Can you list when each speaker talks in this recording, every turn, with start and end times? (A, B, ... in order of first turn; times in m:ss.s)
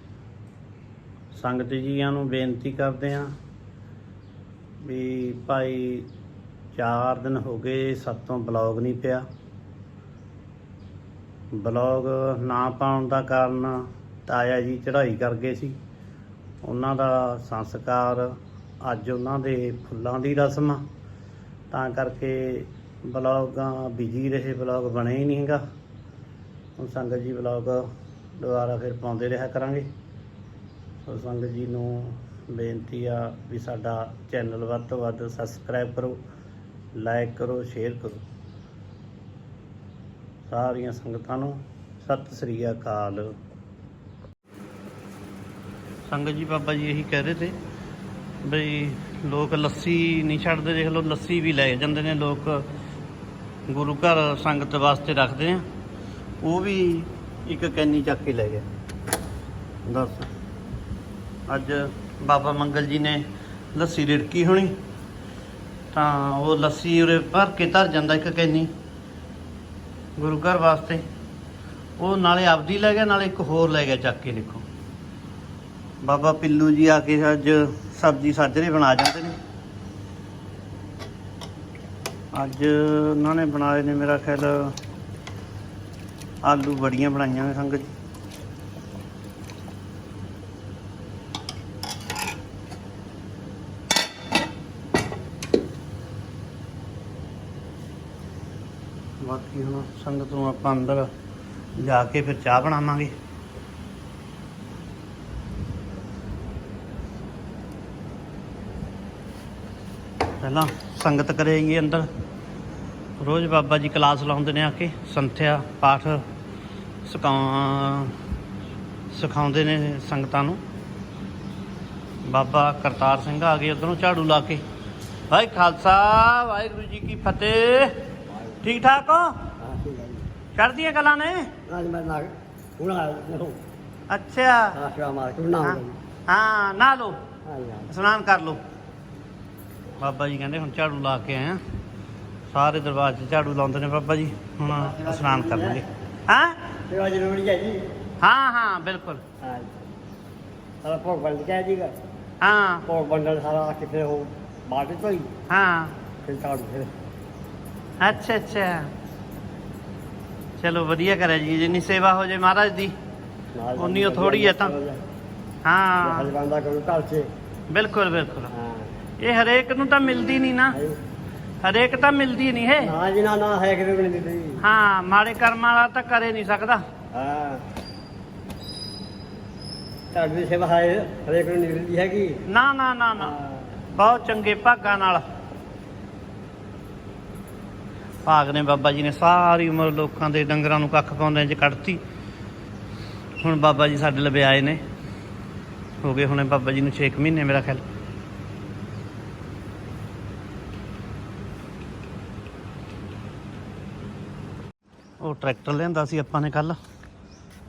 0:01.3-0:03.3 A
0:04.8-0:06.1 A
0:06.7-0:09.2 A
0:11.5-0:15.8 A
0:16.6-0:20.8 A
0:21.7-0:25.6 A
0:26.8-0:27.9 A
0:28.4-0:29.9 A
0:31.0-0:36.2 A
0:37.0-0:38.2 A
0:40.5-0:43.4 A
0:46.1-0:47.6 A
0:48.4-0:52.6 A
0:53.7-0:55.6 A
0:56.4-0:58.6 A
0:59.9-1:00.3 A
1:01.5-1:04.8 A
1:05.9-1:08.7 A
1:10.2-1:11.0 A
1:12.0-1:14.6 A
1:16.0-1:19.4 A
1:22.3-1:24.7 A
1:26.4-1:27.9 A
1:39.2-1:41.1 A
1:41.8-1:43.1 A
1:50.4-1:52.1 A
1:53.2-1:56.2 A
1:57.0-1:58.2 A
1:59.1-2:00.6 A
2:02.2-2:04.6 A
2:05.3-2:08.0 A
2:08.6-2:09.3 A
2:09.6-2:10.3 B
2:10.6-2:11.5 A
2:11.7-2:13.6 B
2:14.1-2:14.8 A
2:14.8-2:16.0 B
2:15.6-2:17.2 A
2:17.4-2:17.9 B
2:17.9-2:18.6 A
2:20.0-2:21.6 A
2:22.5-2:26.7 A
2:24.8-2:25.8 B
2:26.9-2:27.8 B
2:28.2-2:29.2 A
2:29.4-2:29.7 B
2:30.8-2:32.0 B
2:32.4-2:32.9 A
2:32.9-2:35.3 B
2:35.5-2:36.0 A
2:36.2-2:36.9 B
2:38.0-2:38.9 A
2:40.6-2:42.9 A
2:43.6-2:45.0 B
2:43.8-2:44.7 A
2:45.6-2:46.3 A
2:46.0-2:47.3 B
2:47.7-2:48.5 A
2:48.5-2:48.9 B
2:49.2-2:50.8 A
2:50.7-2:51.0 B
2:51.6-2:52.9 A
2:52.8-2:54.6 B
2:54.6-2:56.8 A
2:57.1-2:57.6 B
3:00.1-3:02.4 B
3:02.5-3:03.4 A
3:03.2-3:03.7 B
3:03.9-3:05.2 A
3:08.3-3:12.0 A
3:13.4-3:14.8 A
3:16.0-3:17.8 A
3:25.2-3:26.8 A